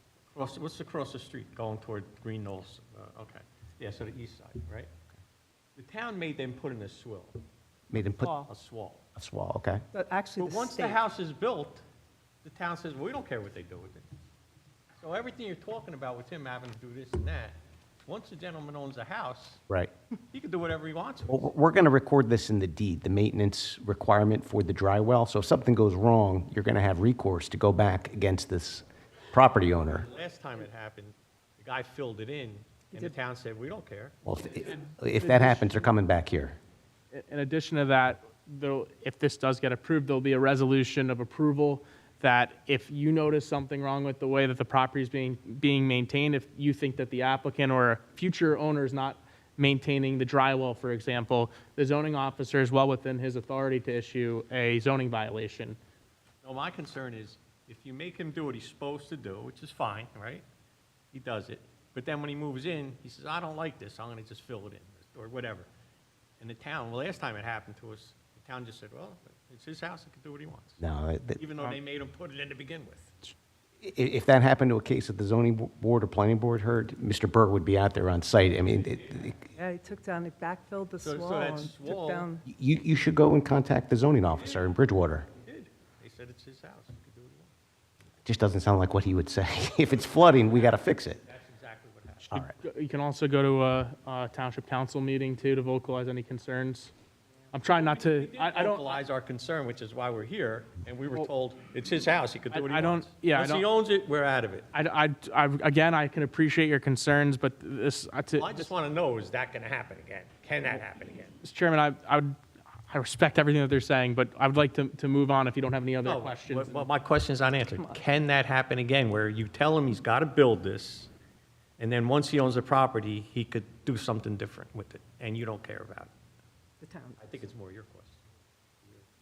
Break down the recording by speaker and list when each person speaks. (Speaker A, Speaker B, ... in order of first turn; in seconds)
Speaker A: 0.3-4.9, 5.8-7.5, 8.2-9.0, 10.4-11.8, 12.4-14.1, 15.0-19.6, 20.3-21.5, 30.0-34.2, 56.4-60.5, 61.1-65.7, 66.4-70.8, 71.4-73.1, 81.0-82.3, 85.4-87.5, 90.0-92.4, 97.6-104.7, 108.3-111.4, 116.0-121.1, 121.8-126.1, 127.2-128.2
Speaker B: 7.9-8.4, 9.2-9.8, 21.3-30.1, 34.2-36.6, 70.8-71.4, 73.8-79.5, 82.5-85.3, 88.2-91.2, 92.3-92.5
Speaker C: 9.9-11.0, 79.6-82.4, 117.7-118.0, 126.8-127.2
Speaker D: 35.1-35.9, 37.1-55.8, 92.5-96.9, 97.5-99.0, 102.5-103.7, 104.7-108.7, 111.4-112.4, 112.9-116.7